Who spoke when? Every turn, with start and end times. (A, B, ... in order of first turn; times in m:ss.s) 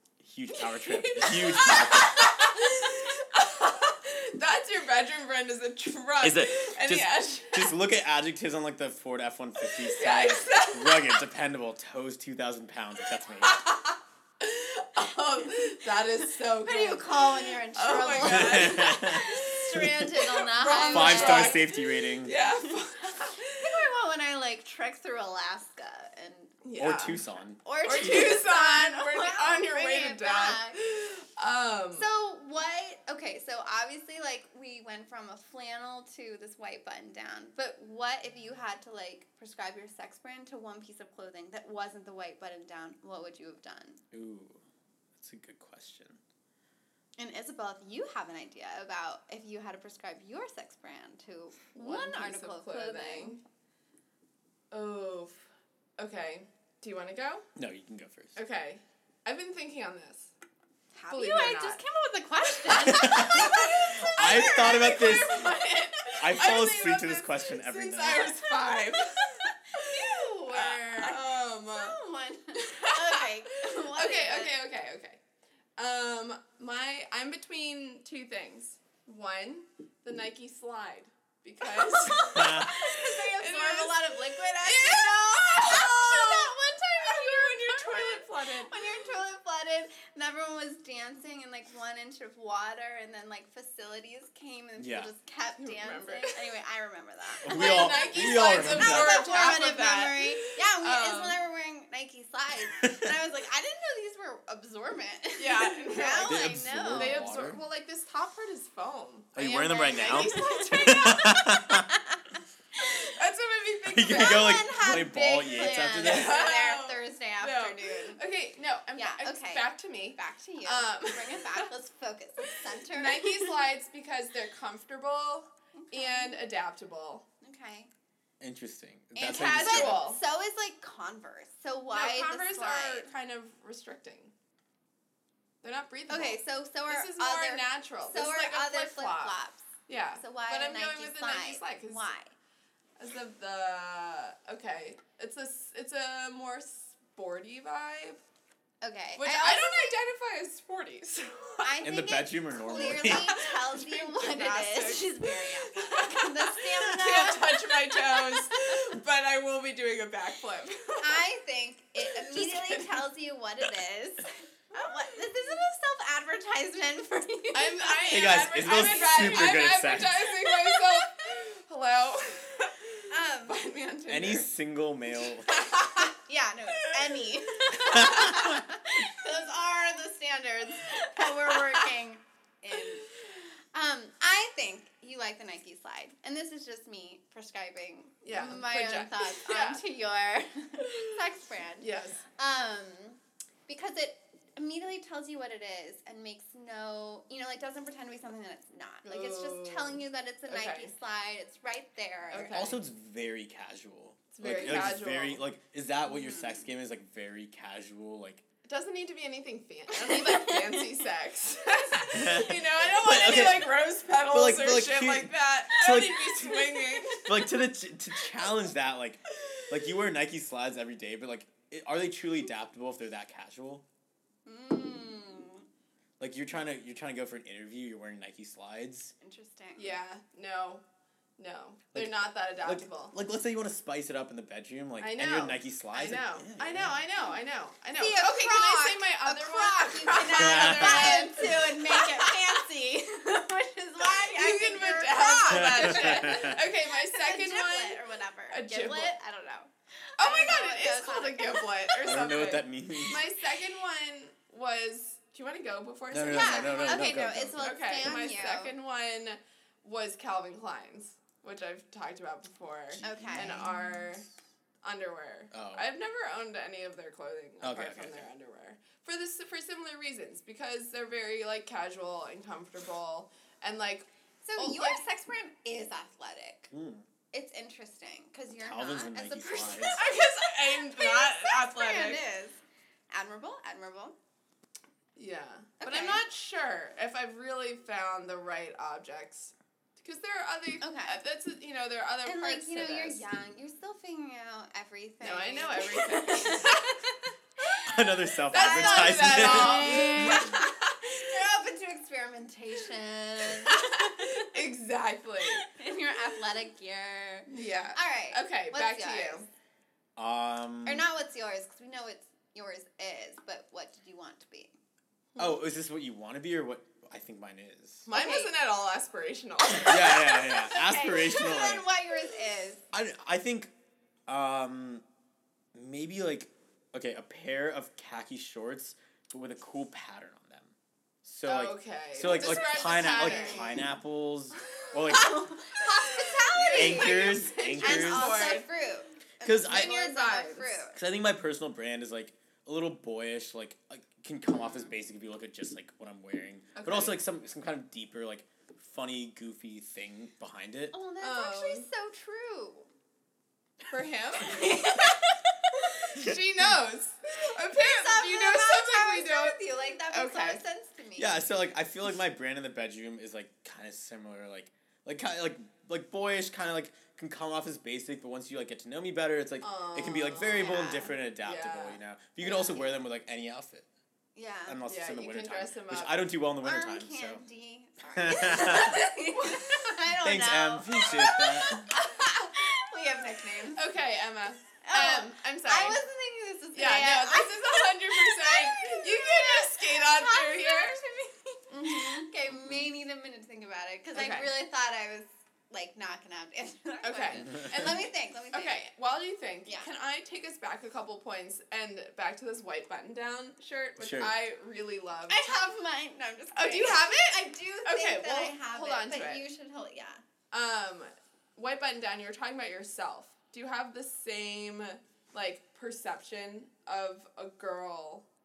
0:00.2-0:02.7 A
0:00.5-0:07.8 B
0:06.2-0:13.6 A
0:09.6-0:11.2 B
0:13.4-0:23.9 B
0:16.6-0:21.6 C
0:18.2-0:20.1 A
0:20.9-0:22.4 A
0:23.4-0:26.6 C
0:26.6-0:27.2 B
0:26.8-0:27.6 A
0:27.6-0:30.8 C
0:27.8-0:32.1 B
0:32.0-0:44.0 C
0:44.1-0:44.6 A
0:45.2-0:46.2 A
0:47.2-0:53.4 C
0:51.8-0:53.4 B
0:54.7-0:55.4 B
0:56.0-0:57.5 B
0:57.6-0:58.4 A
0:58.4-1:00.3 B
1:00.9-1:06.1 C
1:01.1-1:01.8 B
1:02.5-1:12.0 B
1:02.9-1:05.6 A
1:06.2-1:08.3 A
1:09.2-1:14.6 C
1:12.6-1:15.2 B
1:15.8-1:29.0 B
1:21.6-1:47.3 C
1:22.3-1:22.7 A
1:34.8-1:35.1 A
1:35.6-1:36.4 B
1:37.4-1:39.3 A
1:37.4-1:41.4 B
1:42.8-1:43.1 A
1:45.4-1:51.3 B
1:46.2-1:47.6 A
1:49.4-1:51.9 A
1:49.9-1:52.2 C
1:52.8-1:54.6 B
1:53.9-1:56.5 A
1:54.1-1:58.2 C
1:55.7-2:01.7 B
1:59.0-2:03.5 C
2:02.4-2:07.2 B
2:05.7-2:06.4 C
2:07.4-2:07.9 C
2:08.4-2:10.0 A
2:09.2-2:10.2 B
2:09.2-2:13.1 C
2:11.9-2:14.3 B
2:15.6-2:19.4 B
2:16.1-2:19.7 C
2:19.9-2:22.1 B
2:20.2-2:22.3 C
2:23.0-2:28.2 B
2:28.8-2:30.0 C
2:29.2-2:31.7 B
2:31.6-2:38.8 C
2:31.8-2:33.4 A
2:33.1-2:41.2 B
2:41.0-2:49.7 C
2:42.1-2:43.0 B
2:44.8-2:45.5 B
2:47.5-2:54.5 B
2:48.1-2:50.3 A
2:50.4-2:51.1 C
2:53.1-2:53.6 C
2:54.1-2:55.7 A
2:55.2-2:56.1 B
2:55.9-3:22.6 C
2:56.7-2:58.6 B
2:57.9-2:58.6 A
3:01.4-3:01.9 B
3:08.2-3:09.8 B
3:10.8-3:11.2 B
3:11.8-3:12.2 B
3:19.0-3:20.9 B
3:22.3-3:22.8 B
3:22.5-3:28.4 A
3:24.3-3:25.4 B
3:26.1-3:26.6 C
3:28.7-3:37.6 B
3:29.9-3:30.9 C
3:32.1-3:36.4 A
3:37.2-3:43.8 A
3:39.4-3:39.8 B
3:44.5-3:45.7 C
3:46.2-3:49.1 A
3:49.2-3:49.9 C
3:49.8-3:50.8 B
3:51.4-3:53.2 B
3:51.9-3:57.0 A
3:55.0-4:02.6 B
3:58.0-4:12.2 C
4:00.4-4:01.4 A
4:04.0-4:09.2 B
4:05.5-4:06.6 A
4:10.2-4:17.1 B
4:12.0-4:13.2 A
4:16.1-4:18.3 A
4:16.3-4:18.7 C
4:17.6-4:24.3 B
4:22.9-4:24.2 A
4:23.0-4:23.7 C
4:24.8-4:35.0 B
4:25.5-4:25.9 A
4:27.6-4:28.3 A
4:34.4-4:36.7 C
4:36.7-4:37.1 A
4:37.3-4:42.6 C
4:38.6-4:40.0 A
4:40.0-4:42.2 B
4:43.1-4:44.2 C
4:45.2-4:53.2 B
4:45.8-4:46.2 C
4:50.8-4:51.2 C
4:52.2-4:57.9 C
4:55.2-4:56.9 B
4:57.8-5:00.6 A
4:58.5-5:01.2 B
4:58.5-5:04.6 C
5:03.5-5:05.6 B
5:05.4-5:09.5 C
5:07.5-5:09.5 B
5:10.2-5:11.0 A
5:10.8-5:14.7 C
5:15.4-5:15.6 B
5:15.4-5:18.1 A
5:18.1-5:20.5 B
5:18.1-5:18.5 C
5:19.8-5:21.9 A
5:20.0-5:22.8 C
5:22.9-5:23.7 A
5:24.3-5:25.0 A
5:25.7-5:35.4 A
5:31.5-5:33.9 B
5:32.4-5:33.8 C
5:35.1-5:41.0 C
5:35.8-5:38.7 B
5:36.7-5:38.5 A
5:39.4-5:39.9 A
5:39.6-5:40.8 B
5:41.0-5:50.9 A
5:46.8-5:47.2 B
5:50.9-5:52.9 C
5:51.2-5:51.9 B
5:53.9-5:55.0 B
5:54.4-5:55.7 C
5:55.8-5:59.6 B
5:57.7-6:01.4 C
6:00.1-6:00.6 B
6:01.2-6:13.9 A
6:09.6-6:12.0 B
6:10.5-6:11.2 C
6:12.4-6:12.9 C
6:14.4-6:14.8 C
6:14.7-6:17.4 A
6:14.9-6:16.3 B
6:16.6-6:23.9 C
6:18.1-6:19.1 A
6:20.2-6:21.9 A
6:23.7-6:26.0 B
6:24.8-6:38.8 C
6:26.7-6:31.0 B
6:31.7-6:32.3 B
6:34.1-6:34.5 B
6:37.0-6:45.7 B
6:44.0-6:44.3 A
6:45.3-6:50.2 C
6:46.5-6:49.4 B
6:50.5-6:58.3 B